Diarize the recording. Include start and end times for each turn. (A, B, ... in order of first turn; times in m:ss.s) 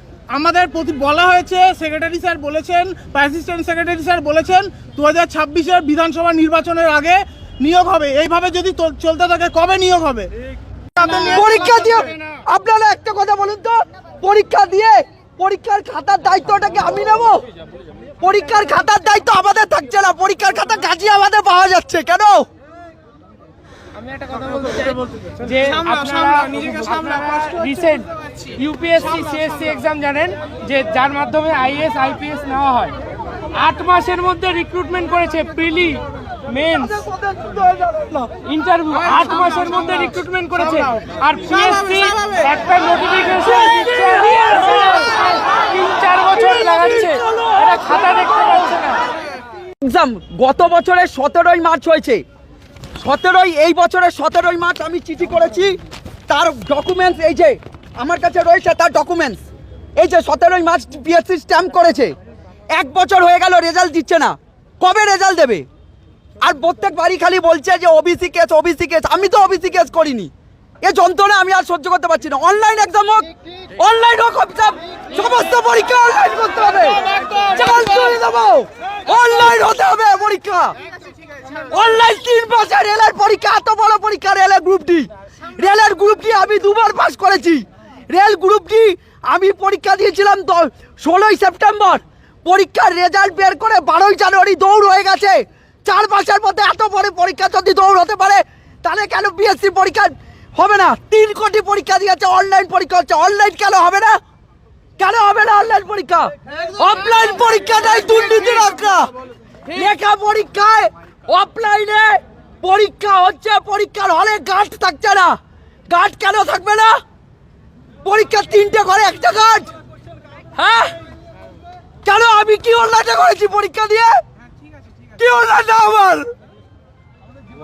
0:00.3-0:10.3 A
0:10.9-0:11.7 A
0:11.3-0:17.4 B
0:18.2-0:22.4 B
0:24.4-0:32.9 C
0:33.5-0:37.0 C
0:37.0-0:38.3 B
0:38.3-0:49.0 C
0:42.1-0:42.4 B
0:43.6-0:45.1 B
0:46.4-0:47.7 B
0:49.8-0:52.2 B
0:53.0-0:55.7 B
0:56.3-0:59.4 B
1:00.0-1:02.1 B
1:02.8-1:05.6 B
1:06.4-1:10.3 B
1:10.8-1:20.7 B
1:21.7-1:44.2 B
1:45.0-1:49.1 B
1:49.7-1:55.4 B
1:55.9-1:57.0 B
1:58.0-1:59.7 B
2:00.6-2:00.9 B
2:02.0-2:04.2 B
2:05.2-2:06.3 B